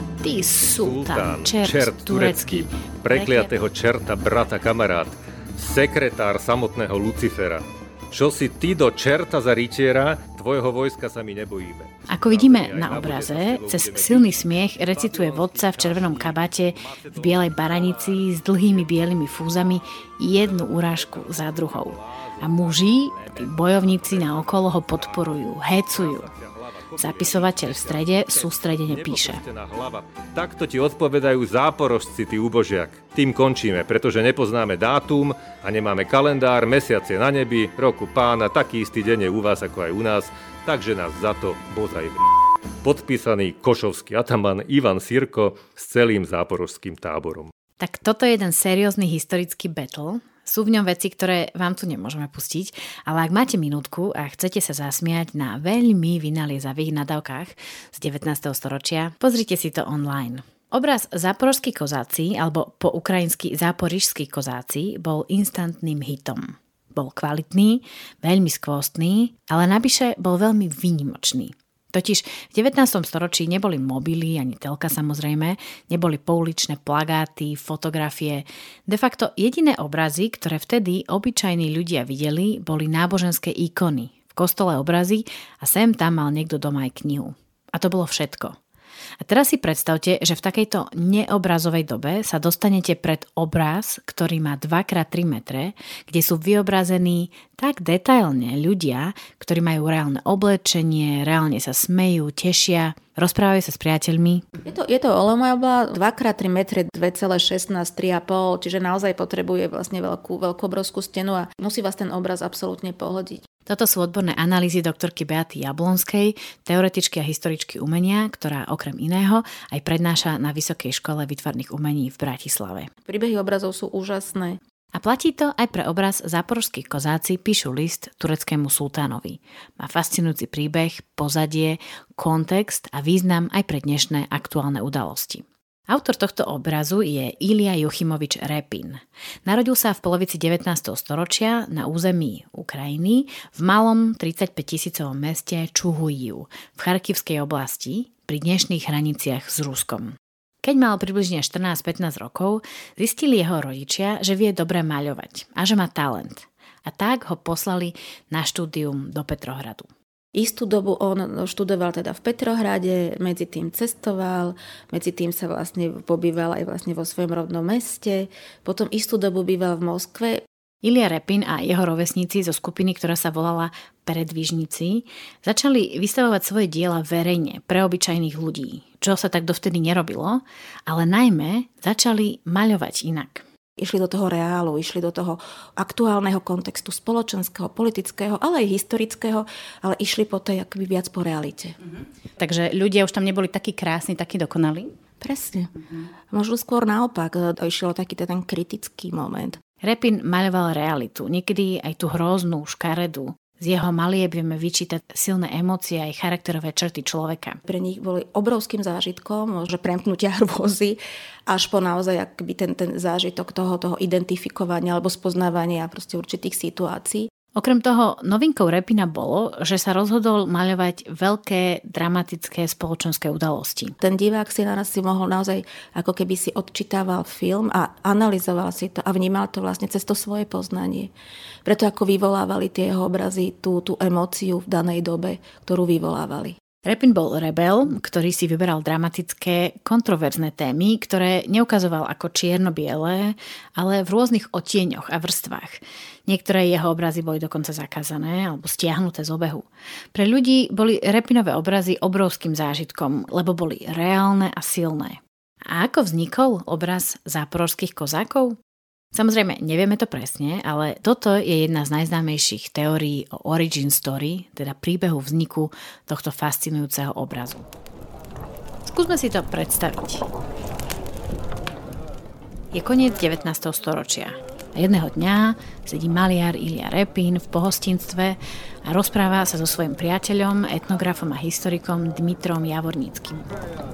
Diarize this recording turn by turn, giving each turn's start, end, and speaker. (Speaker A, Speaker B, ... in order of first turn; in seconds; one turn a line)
Speaker A: 0.2-3.5
Speaker B: 0.8-18.2
Speaker A: 12.1-26.3
Speaker B: 20.4-25.2
Speaker B: 25.9-42.3
Speaker A: 27.0-29.4
Speaker B: 42.8-47.5
Speaker A: 47.8-88.6
Speaker A: 89.2-104.4
Speaker C: 104.6-113.4
Speaker A: 113.7-122.9
Speaker C: 123.0-124.6
Speaker A: 124.9-159.9
Speaker C: 160.3-170.4
Speaker A: 170.8-183.4
Speaker C: 183.8-191.8
Speaker A: 192.4-194.9
Speaker C: 195.2-199.6
Speaker A: 199.8-207.6
Speaker C: 207.6-217.3
Speaker A: 217.5-224.0
Speaker C: 224.0-231.1
Speaker C: 231.6-236.6
Speaker A: 236.8-258.6
Speaker A: 259.1-267.6
Speaker A: 268.9-270.2
Speaker A: 272.7-283.5